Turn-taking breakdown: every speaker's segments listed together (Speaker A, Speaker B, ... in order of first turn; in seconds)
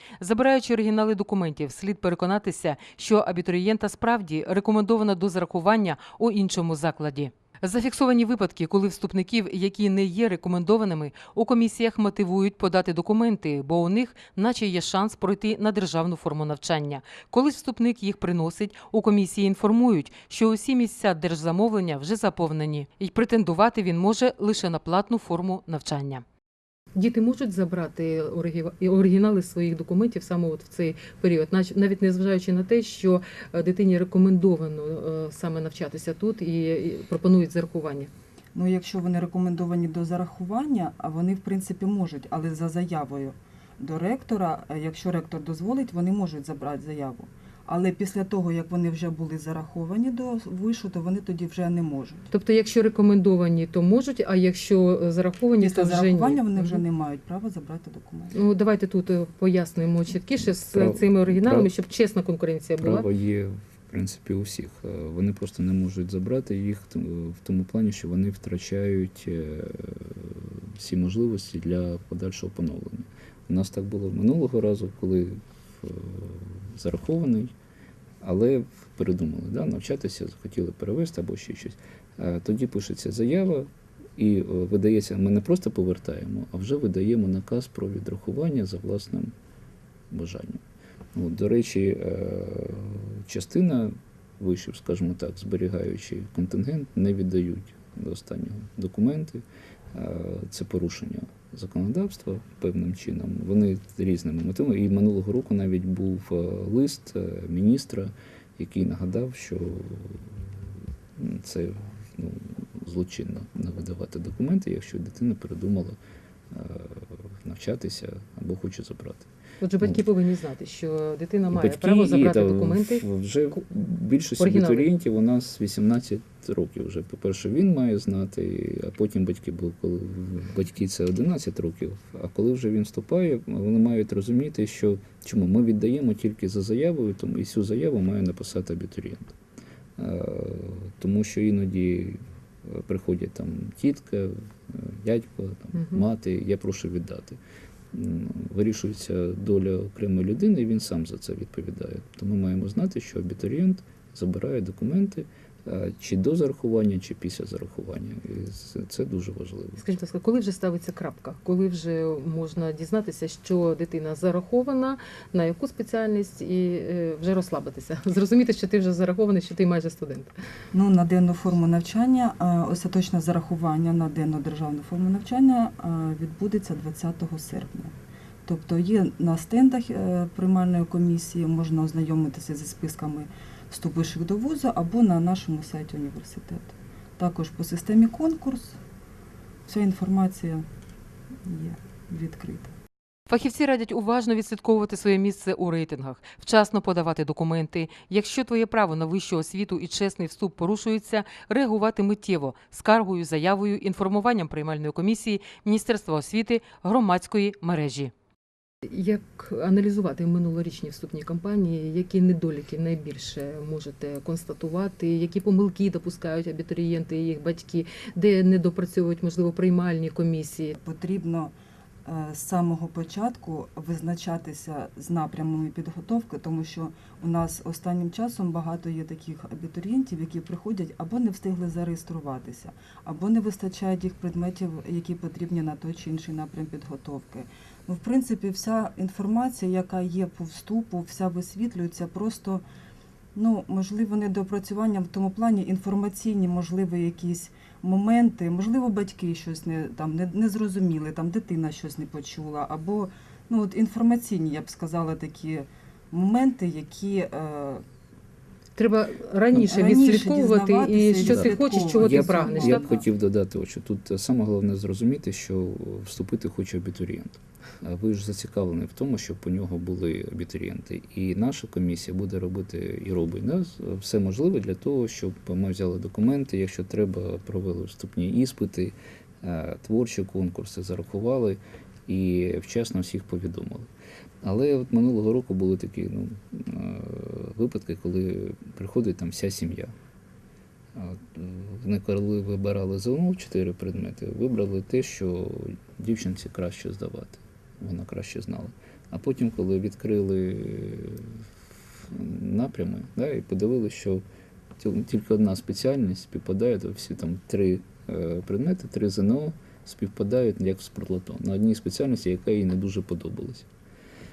Speaker A: 0.2-26.2, 26.9-38.1, 52.3-56.8, 58.3-63.0, 119.6-123.0, 124.4-124.9, 159.8-170.3, 193.3-208.1, 208.8-220.7, 258.8-262.8
Speaker B: 38.5-52.3, 55.6-58.4, 170.7-177.9, 178.4-188.8, 189.7-190.7, 191.4-192.7, 220.7-221.5, 222.0-242.6, 243.3-257.8, 259.5-263.0
Speaker C: 60.4-61.7, 62.8-77.5, 78.2-89.3, 90.1-90.6, 91.1-116.0, 116.5-119.3, 121.5-139.3, 140.0-147.4, 147.9-159.9, 261.2-283.9, 284.4-289.9, 290.9-301.4, 302.0-304.2, 304.8-313.7